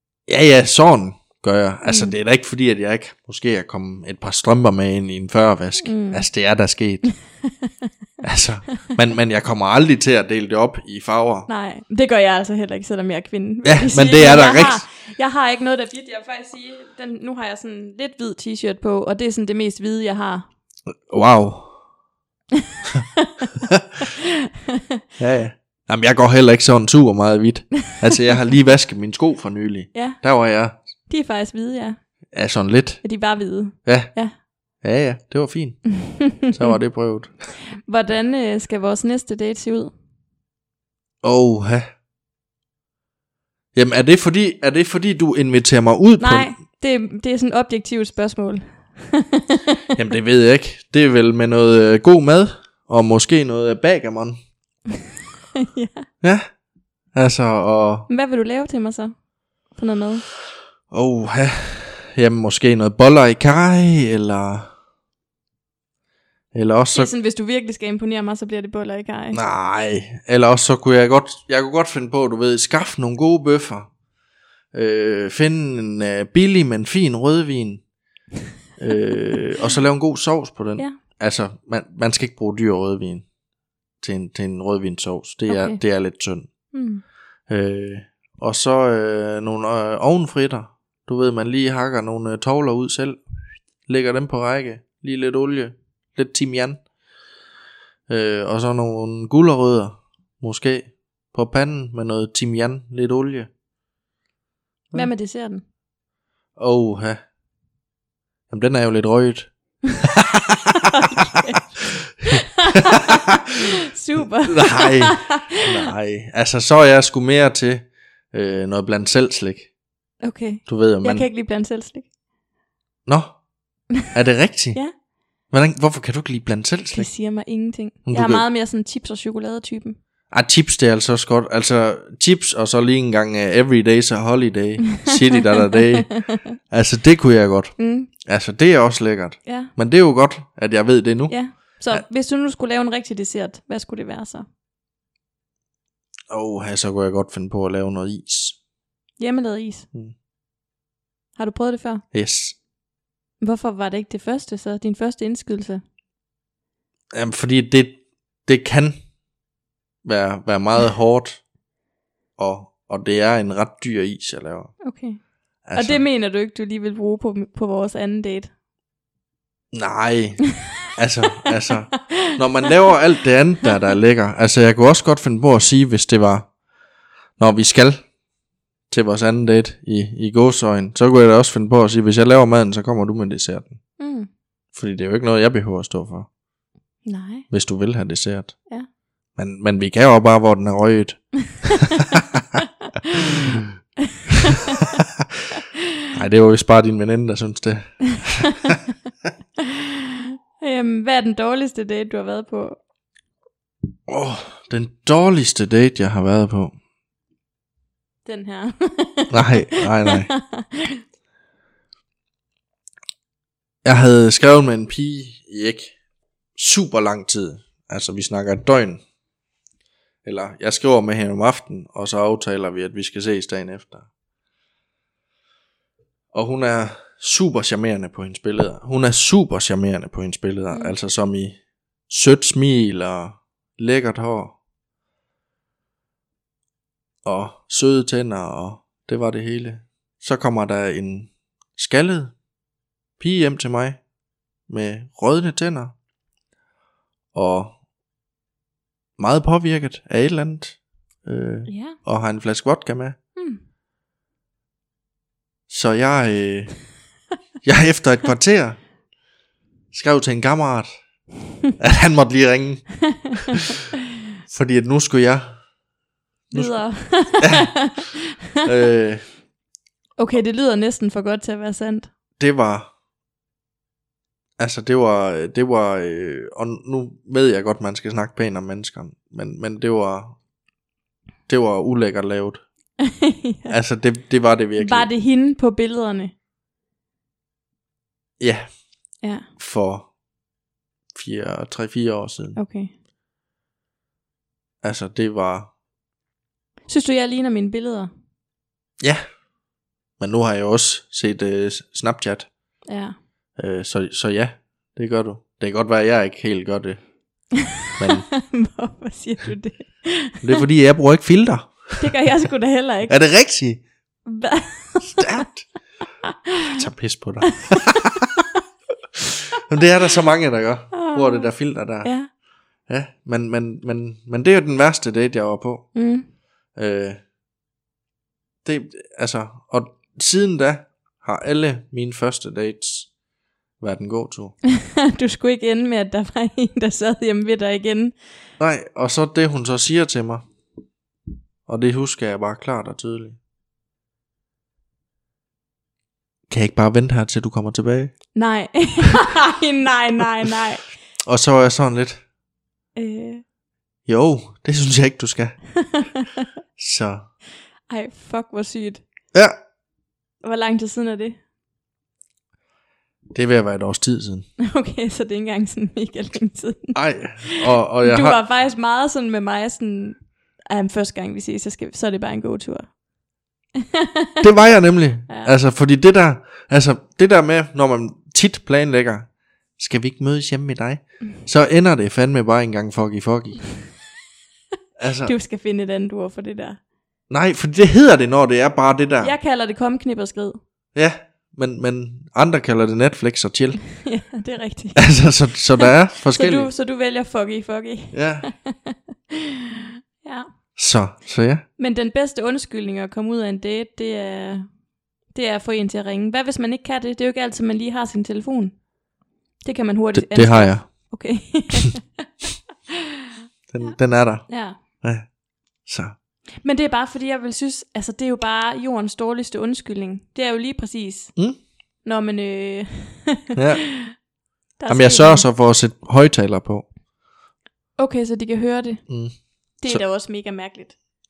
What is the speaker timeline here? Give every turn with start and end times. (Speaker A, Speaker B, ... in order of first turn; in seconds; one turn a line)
Speaker A: 0.3-7.1
Speaker B: 1.9-2.1
Speaker B: 5.8-6.3
Speaker A: 8.2-11.5
Speaker B: 11.5-20.5
Speaker A: 13.6-14.8
Speaker A: 21.1-21.8
Speaker B: 23.2-23.5
Speaker B: 24.0-24.8
Speaker A: 25.2-30.8
Speaker B: 29.9-30.2
Speaker B: 31.1-32.0
Speaker A: 32.3-33.0
Speaker B: 33.0-34.3
Speaker A: 33.8-34.1
Speaker A: 34.8-37.3
Speaker B: 36.0-36.7
Speaker B: 37.9-39.9
Speaker A: 41.2-41.9
Speaker A: 43.7-46.5
Speaker B: 46.2-49.8
Speaker A: 50.0-54.4
Speaker B: 55.6-56.1
Speaker A: 56.2-56.5
Speaker A: 57.1-58.1
Speaker B: 58.1-59.1
Speaker B: 59.7-60.2
Speaker A: 60.9-64.7
Speaker A: 66.5-67.1
Speaker B: 66.9-69.4
Speaker A: 69.3-73.9
Speaker A: 74.7-77.8
Speaker A: 78.8-83.3
Speaker A: 84.0-86.5
Speaker B: 85.5-85.8
Speaker B: 86.7-87.0
Speaker A: 87.5-93.2
Speaker A: 93.9-96.8
Speaker A: 98.1-103.5
Speaker B: 104.9-105.6
Speaker A: 106.6-107.2
Speaker A: 108.5-110.9
Speaker B: 110.8-111.7
Speaker B: 112.2-115.6
Speaker A: 112.7-113.4
Speaker A: 114.4-119.7
Speaker B: 120.2-122.1
Speaker A: 120.7-121.3
Speaker A: 123.1-123.4
Speaker A: 124.0-124.8
Speaker A: 125.5-127.1
Speaker B: 126.9-130.0
Speaker A: 128.1-128.4
Speaker A: 130.3-136.1
Speaker B: 134.9-136.4
Speaker A: 136.7-141.4
Speaker B: 137.8-138.1
Speaker B: 139.4-139.7
Speaker B: 141.3-144.5
Speaker A: 146.3-148.6
Speaker B: 149.2-149.9
Speaker B: 151.4-152.0
Speaker A: 152.1-152.6
Speaker B: 153.4-155.8
Speaker A: 157.1-159.0
Speaker A: 160.0-161.4
Speaker A: 162.4-164.8
Speaker B: 164.8-165.2
Speaker A: 165.7-166.0
Speaker B: 165.7-168.5
Speaker A: 169.7-176.5
Speaker B: 171.7-172.7
Speaker A: 177.4-178.1
Speaker A: 178.9-183.8
Speaker B: 184.0-184.3
Speaker A: 184.7-186.3
Speaker B: 187.1-187.5
Speaker A: 187.5-188.6
Speaker A: 189.4-192.4
Speaker B: 193.2-193.6
Speaker B: 194.4-194.8
Speaker A: 196.1-198.8
Speaker B: 200.6-202.8
Speaker A: 204.1-206.7
Speaker B: 208.2-211.0
Speaker A: 209.3-210.3
Speaker A: 213.8-215.9
Speaker A: 216.6-219.0
Speaker A: 220.2-224.1
Speaker A: 226.3-234.6
Speaker A: 237.2-242.3
Speaker A: 243.2-244.0
Speaker A: 244.7-245.9
Speaker A: 247.3-247.8
Speaker A: 249.2-253.2
Speaker B: 251.7-252.0
Speaker B: 253.3-253.6
Speaker A: 255.7-256.8
Speaker A: 257.6-258.8
Speaker A: 259.9-261.0
Speaker A: 261.8-263.0
Speaker A: 264.5-265.6
Speaker B: 266.5-268.2
Speaker A: 266.5-267.7
Speaker A: 268.6-269.3
Speaker B: 270.2-272.1
Speaker A: 272.4-272.9
Speaker A: 274.6-280.4
Speaker A: 281.5-282.6
Speaker B: 283.1-283.8
Speaker A: 283.7-285.1
Speaker B: 284.8-286.3
Speaker A: 288.4-288.7
Speaker B: 289.2-289.5
Speaker A: 289.6-290.1
Speaker A: 291.1-292.6
Speaker B: 292.6-292.9
Speaker A: 294.8-295.7
Speaker B: 296.9-298.1
Speaker A: 300.2-302.5
Speaker B: 302.9-303.1
Speaker A: 303.6-307.0
Speaker A: 308.0-308.3
Speaker B: 308.0-310.6
Speaker A: 310.4-312.1
Speaker B: 312.0-313.1
Speaker A: 313.1-313.8
Speaker B: 314.3-315.4
Speaker A: 315.0-315.7
Speaker B: 316.3-316.7
Speaker A: 316.8-318.2
Speaker B: 317.5-318.2
Speaker A: 319.6-322.1
Speaker B: 320.9-321.5
Speaker B: 322.0-322.3
Speaker A: 322.9-325.9
Speaker B: 325.9-326.3
Speaker A: 326.8-327.2
Speaker A: 328.6-333.1
Speaker A: 333.8-334.6
Speaker B: 334.8-338.2
Speaker A: 338.6-340.5
Speaker A: 341.7-343.4
Speaker A: 346.5-348.2
Speaker B: 348.4-350.9
Speaker A: 351.2-352.2
Speaker B: 353.0-353.4
Speaker A: 354.1-355.6
Speaker B: 355.8-356.3
Speaker A: 356.8-357.2
Speaker B: 357.9-359.0
Speaker B: 360.4-361.4
Speaker A: 363.3-364.5
Speaker B: 364.6-372.9
Speaker A: 366.9-368.4
Speaker B: 374.0-374.3
Speaker A: 374.4-383.6
Speaker A: 385.0-385.3
Speaker B: 385.2-386.8
Speaker A: 387.3-389.3
Speaker B: 389.2-390.6
Speaker A: 390.9-393.8
Speaker B: 394.0-395.2
Speaker A: 395.0-396.7
Speaker B: 395.8-398.9
Speaker A: 398.1-398.5
Speaker B: 399.8-400.5
Speaker A: 400.8-401.6
Speaker B: 401.8-404.7
Speaker B: 405.3-408.8
Speaker B: 409.6-412.2
Speaker A: 410.1-411.1
Speaker A: 413.7-415.3
Speaker B: 414.5-414.8
Speaker A: 415.9-416.2
Speaker B: 416.6-421.4
Speaker B: 422.0-424.1
Speaker A: 423.6-423.9
Speaker B: 424.8-425.5
Speaker A: 424.9-426.9
Speaker B: 428.0-429.0
Speaker A: 429.1-430.0
Speaker B: 429.8-430.9